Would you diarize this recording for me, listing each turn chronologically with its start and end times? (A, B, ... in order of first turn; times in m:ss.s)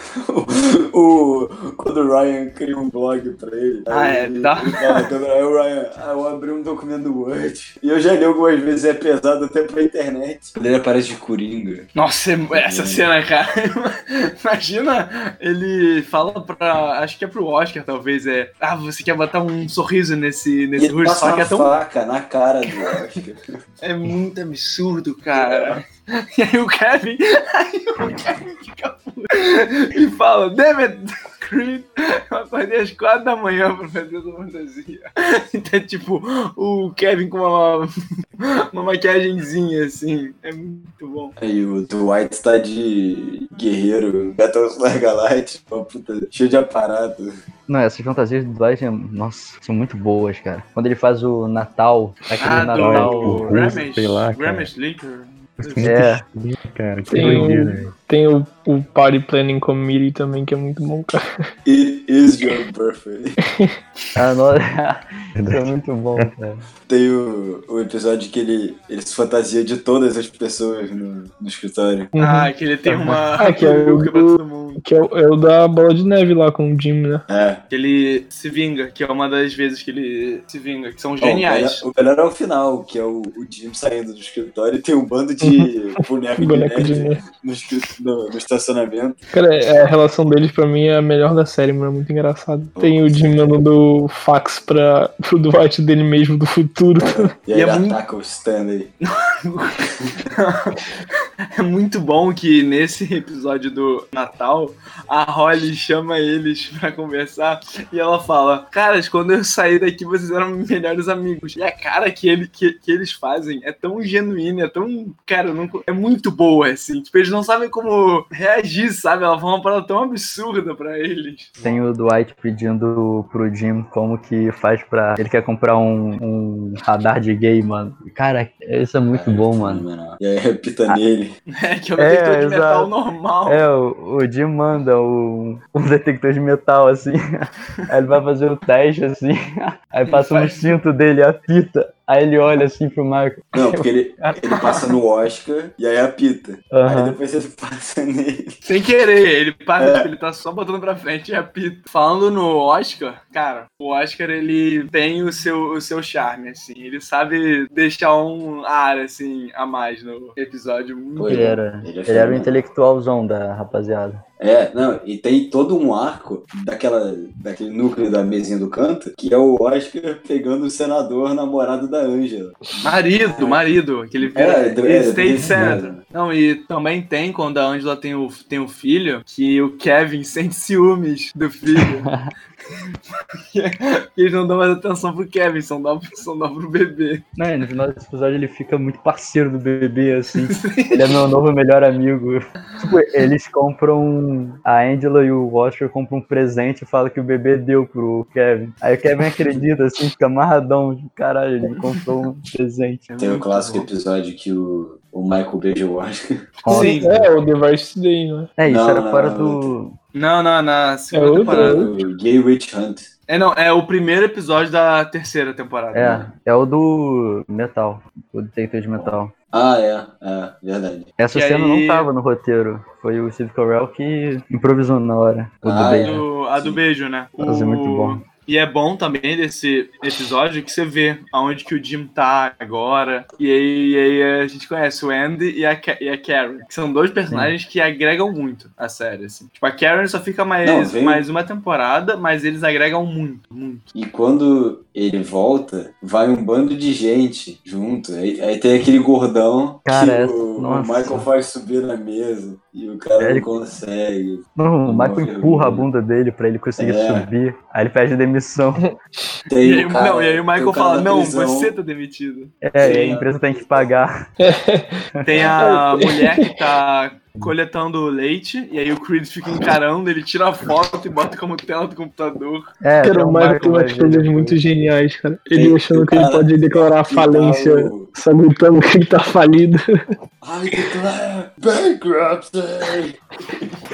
0:00.1-0:11.9 A
0:03.9-0:05.1 B
0:12.0-0:21.7 B
0:12.5-0:13.0 A
0:20.8-0:23.4 A
0:23.8-0:41.3 B
0:25.4-0:25.8 A
0:41.4-0:47.3 A
0:47.7-0:53.6 C
0:52.4-0:56.0 B
0:52.4-0:54.7 D
0:55.6-0:57.9 D
0:55.8-0:56.2 C
0:57.1-1:01.2 E
1:01.6-1:03.4 A
1:03.4-1:03.7 E
1:04.2-1:06.6 C
1:05.4-1:05.7 D
1:06.9-1:12.1 A
1:12.1-1:12.5 E
1:12.2-1:14.8 B
1:12.9-1:13.2 C
1:13.4-1:17.2 E
1:17.3-1:17.6 A
1:17.7-1:21.8 B
1:21.2-1:29.2 A
1:25.4-1:25.7 E
1:26.4-1:27.2 E
1:29.3-1:37.3 E
1:32.8-1:33.5 A
1:37.0-1:38.9 A
1:37.5-1:38.0 B
1:39.0-1:40.9 B
1:41.5-2:01.5 B
2:01.6-2:09.8 C
2:09.1-2:11.4 A
2:11.5-2:13.6 B
2:12.0-2:12.9 C
2:13.4-2:23.5 C
2:20.1-2:20.7 B
2:23.5-2:28.6 A
2:24.4-2:24.9 B
2:26.7-2:27.2 C
2:28.7-2:41.6 B
2:29.8-2:30.1 A
2:41.2-2:42.6 A
2:41.3-2:44.2 C
2:44.4-2:53.6 A
2:52.8-3:02.1 B
2:54.3-2:56.0 A
2:55.4-2:55.8 C
3:01.8-3:02.3 C
3:03.5-3:07.2 B
3:07.4-3:23.1 C
3:10.5-3:11.2 B
3:23.1-3:23.9 B
3:23.2-3:26.5 A
3:26.6-3:27.1 B
3:26.6-3:27.3 C
3:26.7-3:28.5 E
3:28.6-3:29.9 C
3:28.6-3:29.7 A
3:30.1-3:31.9 B
3:31.1-3:31.9 E
3:31.4-3:33.1 A
3:33.3-3:36.2 B
3:35.9-3:39.3 C
3:36.0-3:36.2 A
3:39.0-3:41.1 A
3:41.2-3:46.2 C
3:41.3-3:42.1 B
3:45.6-3:46.8 A
3:46.0-4:03.9 B
3:47.4-3:48.2 C
4:00.6-4:01.2 A
4:03.9-4:15.8 A
4:09.8-4:11.3 C
4:13.2-4:13.5 C
4:14.6-4:18.8 C
4:16.8-4:17.3 A
4:19.5-4:21.7 A
4:19.6-4:23.2 B
4:22.6-4:24.2 C
4:22.8-4:23.9 A
4:24.4-4:25.1 E
4:25.2-4:32.7 B
4:25.3-4:25.6 A
4:25.6-4:26.6 E
4:32.8-4:34.6 C
4:33.0-4:39.8 E
4:35.5-4:38.1 A
4:40.4-4:43.8 A